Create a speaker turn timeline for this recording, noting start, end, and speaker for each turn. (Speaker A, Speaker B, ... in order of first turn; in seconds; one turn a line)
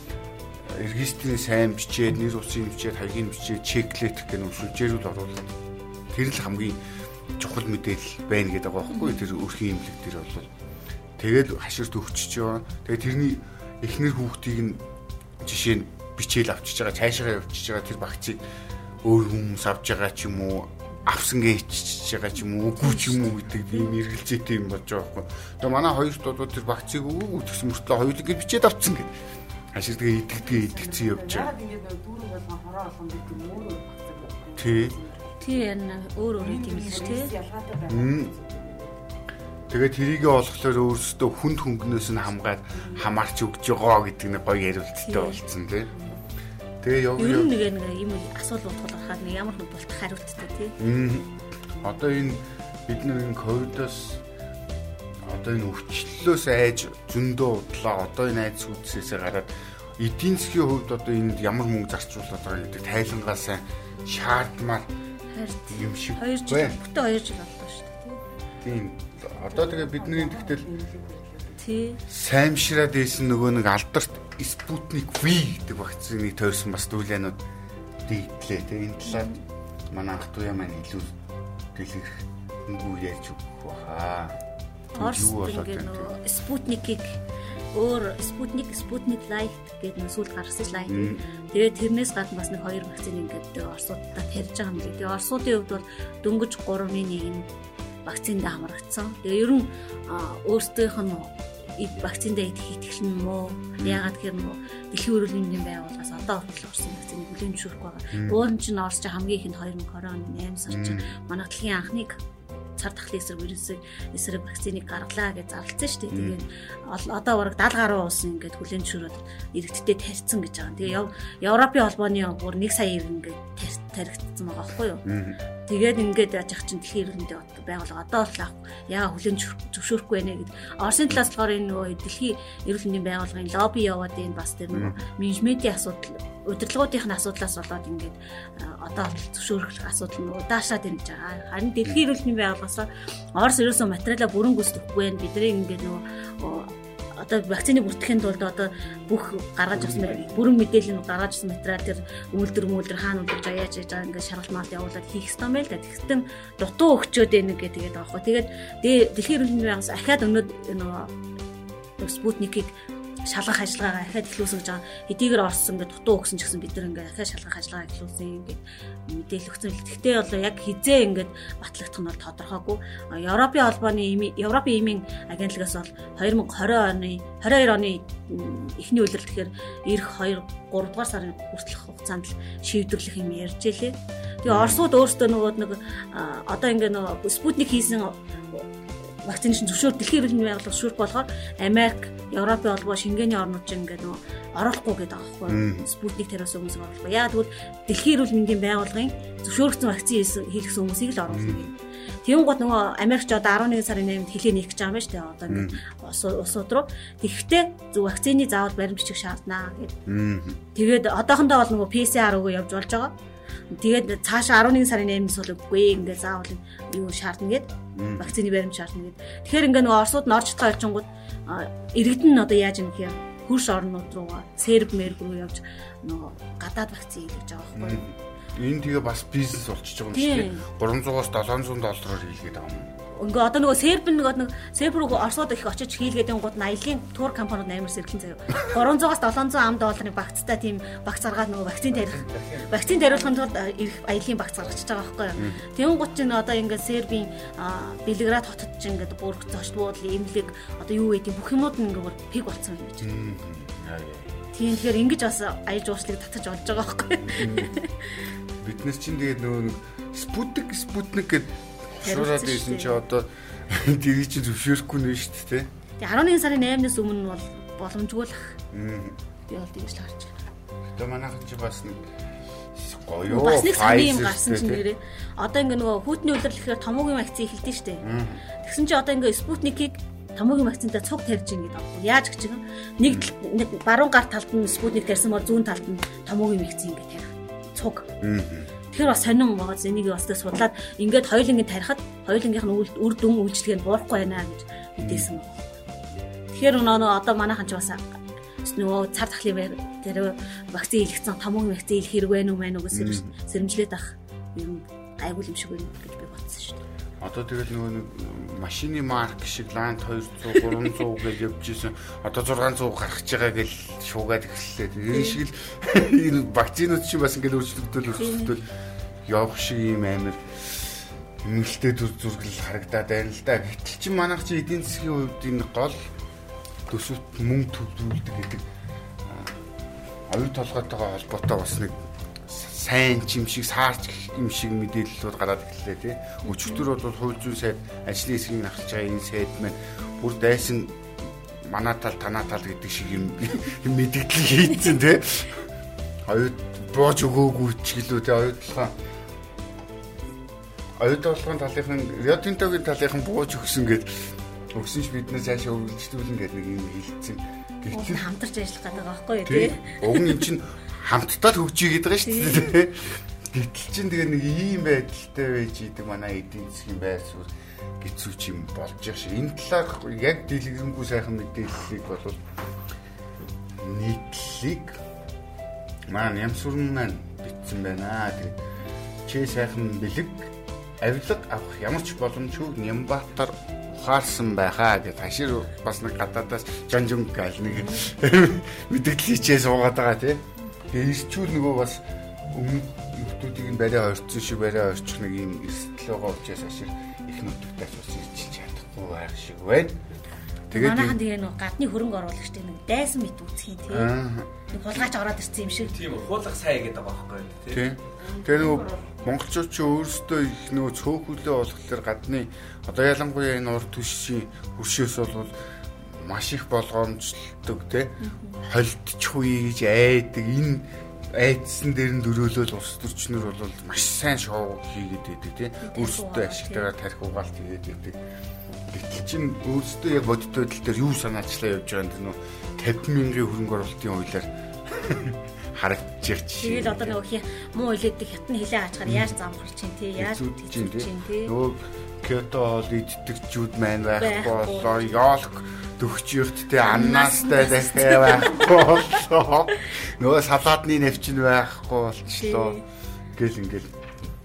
Speaker A: 0.6-5.5
Speaker A: 6.1-6.8
Speaker A: 7.4-10.5
Speaker B: 8.9-9.3
Speaker A: 11.2-14.8
Speaker A: 15.4-18.4
Speaker A: 19.0-29.2
Speaker B: 22.8-23.9
Speaker A: 29.7-31.5
Speaker C: 30.3-35.7
Speaker A: 34.6-35.0
Speaker B: 35.4-37.3
Speaker C: 36.4-39.0
Speaker A: 37.9-38.3
Speaker A: 39.7-45.9
Speaker C: 42.7-43.1
Speaker B: 45.0-45.4
Speaker C: 45.9-46.2
Speaker A: 46.8-47.5
Speaker B: 47.2-50.8
Speaker A: 50.8-51.3
Speaker A: 51.8-54.2
Speaker A: 55.2-64.9
Speaker B: 65.3-68.2
Speaker A: 65.7-66.8
Speaker A: 68.6-70.7
Speaker C: 69.2-71.6
Speaker B: 71.6-72.0
Speaker A: 72.1-77.4
Speaker A: 78.1-79.3
Speaker B: 79.0-79.4
Speaker A: 79.9-81.2
Speaker A: 81.7-84.4
Speaker B: 85.0-87.2
Speaker A: 85.0-86.1
Speaker B: 87.7-97.5
Speaker A: 90.9-91.2
Speaker B: 98.0-112.2
Speaker A: 103.8-104.0
Speaker A: 108.1-108.4
Speaker A: 110.7-111.1
Speaker B: 112.8-125.0
Speaker A: 116.1-116.4
Speaker A: 125.0-125.4
Speaker B: 125.7-161.1
Speaker B: 162.0-162.7
Speaker B: 163.3-188.7
Speaker A: 184.5-184.9
Speaker B: 189.2-210.0
Speaker A: 195.5-195.9
Speaker A: 201.3-201.6
Speaker A: 205.5-205.8
Speaker A: 210.1-210.6
Speaker B: 210.7-213.1
Speaker B: 213.7-228.1
Speaker A: 217.9-218.4
Speaker A: 227.7-233.0
Speaker B: 230.1-230.7
Speaker B: 233.2-253.2
Speaker D: 241.9-243.4
Speaker A: 253.0-254.5
Speaker B: 254.5-258.2
Speaker A: 257.3-257.8
Speaker A: 258.6-265.7
Speaker B: 262.0-263.0
Speaker B: 266.0-268.6
Speaker A: 268.7-269.2
Speaker B: 269.5-270.4
Speaker A: 270.9-272.1
Speaker A: 272.7-274.8
Speaker B: 273.3-288.1
Speaker A: 278.0-278.4
Speaker A: 288.2-288.7
Speaker B: 288.9-295.8
Speaker A: 295.0-295.3
Speaker B: 296.5-298.0
Speaker B: 298.6-306.8
Speaker A: 302.9-303.3
Speaker A: 307.2-318.7
Speaker B: 315.1-315.4
Speaker B: 318.2-318.6
Speaker A: 319.3-326.0
Speaker A: 326.9-328.6
Speaker A: 329.2-329.6
Speaker A: 330.3-345.7
Speaker B: 336.4-336.9
Speaker A: 346.3-348.9
Speaker A: 351.0-358.3
Speaker B: 357.9-360.5
Speaker A: 359.4-372.4
Speaker B: 362.2-362.7
Speaker A: 373.8-375.0
Speaker A: 376.1-378.6
Speaker A: 379.3-400.0
Speaker B: 400.7-404.1
Speaker A: 400.7-401.2
Speaker A: 403.9-404.5
Speaker B: 404.7-406.0
Speaker D: 405.8-407.9
Speaker A: 407.7-428.2
Speaker B: 408.6-408.9
Speaker B: 418.2-418.6
Speaker B: 425.8-426.9
Speaker A: 428.9-437.2
Speaker B: 436.6-441.6
Speaker A: 439.1-439.3
Speaker A: 440.2-452.8
Speaker B: 444.2-445.1
Speaker B: 446.8-448.9
Speaker B: 452.4-452.8
Speaker A: 453.4-453.9